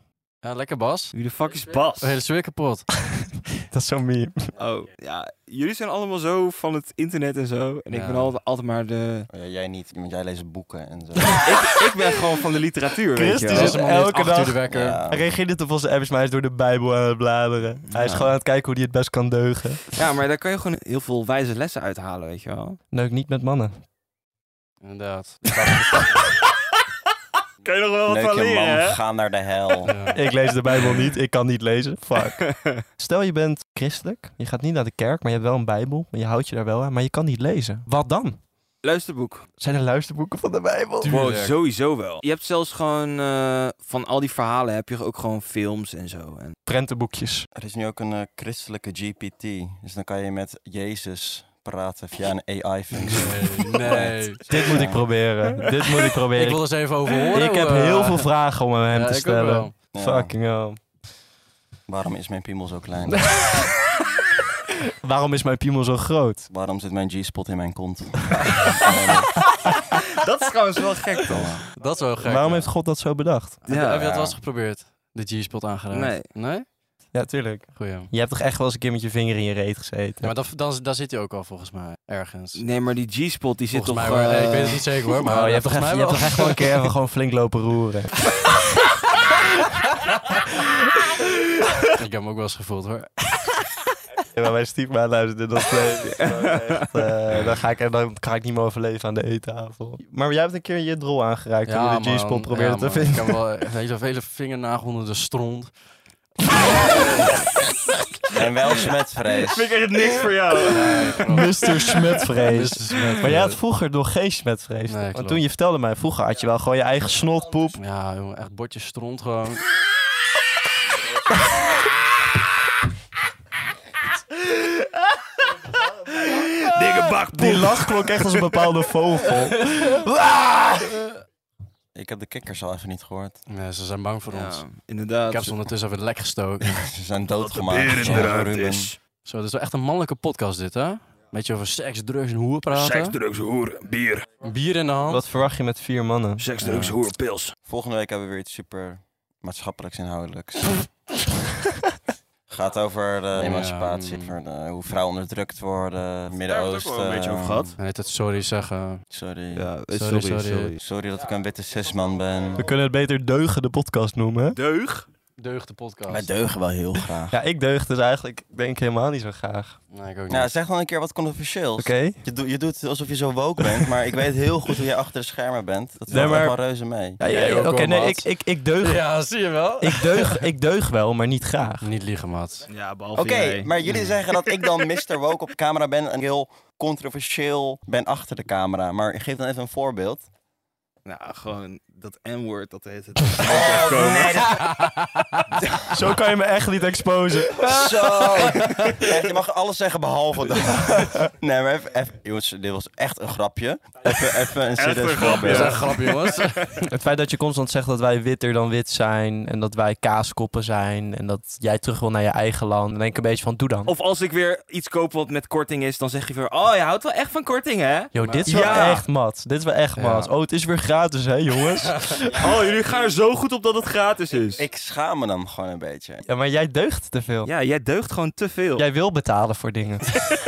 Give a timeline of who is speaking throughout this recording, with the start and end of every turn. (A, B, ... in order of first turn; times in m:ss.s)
0:00.4-0:01.1 A
0:01.1-0:02.2 B
0:01.8-0:02.9 A
0:03.0-0:04.5 C
0:04.6-0:09.3 B
0:07.9-0:08.3 A
0:09.3-0:11.5 D
0:11.4-0:13.8 B
0:13.1-0:19.8 C
0:13.5-0:15.0 A
0:14.7-0:15.2 D
0:17.9-0:18.3 B
0:19.9-0:22.8 B
0:22.9-0:23.7 C
0:24.8-0:26.2 A
0:27.6-0:29.0 B
0:28.1-0:29.9 D
0:29.9-0:30.2 A
0:30.1-0:38.4 C
0:32.4-0:32.8 B
0:38.8-0:39.5 B
0:39.6-0:41.2 C
0:41.0-0:41.5 A
0:41.1-0:46.6 B
0:46.7-0:47.5 C
0:47.6-0:55.0 D
0:53.0-0:54.5 A
0:54.5-0:56.6 C
0:56.3-0:58.3 A
0:57.3-1:00.8 C
0:58.9-0:59.8 A
0:59.9-1:00.3 D
1:01.9-1:03.5 D
1:03.3-1:03.7 C
1:04.9-1:06.5 C
1:06.5-1:09.4 D
1:09.9-1:11.6 B
1:11.3-1:11.6 D
1:11.7-1:12.7 A
1:12.2-1:13.6 C
1:13.6-1:16.7 A
1:13.7-1:14.1 B
1:14.0-1:14.4 D
1:15.9-1:16.3 B
1:17.1-1:20.3 C
1:17.8-1:18.1 A
1:20.2-1:22.6 A
1:22.6-1:24.8 B
1:23.7-1:26.9 A
1:25.2-1:28.4 C
1:31.8-1:33.1 A
1:34.4-1:43.4 C
1:36.2-1:36.9 B
1:41.7-1:45.7 A
1:46.8-1:47.1 A
1:48.3-1:49.7 D
1:49.4-1:51.2 B
1:50.6-1:53.6 A
1:51.2-1:57.8 C
1:54.9-1:55.4 A
1:57.8-1:59.7 A
2:06.3-2:06.7 C
2:06.6-2:08.5 B
2:07.3-2:11.0 C
2:12.0-2:13.4 D
2:13.5-2:14.6 A
2:14.3-2:15.6 B
2:15.3-2:16.9 A
2:16.7-2:18.9 D
2:17.4-2:19.0 B
2:18.0-2:18.3 A
2:19.2-2:23.2 A
2:22.7-2:24.3 B
2:24.4-2:25.2 A
2:25.1-2:26.4 C
2:26.4-2:27.5 B
2:26.6-2:27.0 A
2:27.7-2:30.9 D
2:32.5-2:37.8 D
2:33.3-2:34.4 A
2:36.4-2:37.8 B
2:37.8-2:39.0 A
2:39.1-2:39.7 D
2:39.5-2:40.8 B
2:39.9-2:40.8 A
2:40.8-2:42.7 D
2:42.6-2:44.6 C
2:44.5-2:45.1 B
2:45.4-2:46.3 A
2:46.1-2:47.4 D
2:47.3-2:49.8 C
2:49.9-2:50.5 A
2:50.3-2:57.2 D
2:51.8-2:52.2 C
2:56.1-2:56.6 C
2:57.2-2:59.1 C
2:57.3-2:58.3 A
2:58.8-3:00.5 A
2:59.8-3:01.9 C
3:01.8-3:02.7 A
3:02.7-3:04.0 B
3:03.2-3:10.3 D
3:11.0-3:14.5 B
3:13.4-3:14.8 D
3:14.6-3:15.4 A
3:15.6-3:16.0 D
3:15.9-3:17.9 C
3:17.6-3:25.8 D
3:17.8-3:18.3 B
3:18.2-3:18.7 A
3:20.7-3:21.3 C
3:24.8-3:26.5 B
3:25.3-3:26.7 A
3:26.8-3:33.9 C
3:33.9-3:39.0 B
3:38.1-3:42.5 C
3:38.2-3:38.8 A
3:40.0-3:40.3 A
3:42.3-3:42.7 D
3:42.4-3:44.6 B
3:44.6-3:46.2 D
3:46.3-3:47.5 C
3:47.4-3:48.8 B
3:48.8-3:50.4 C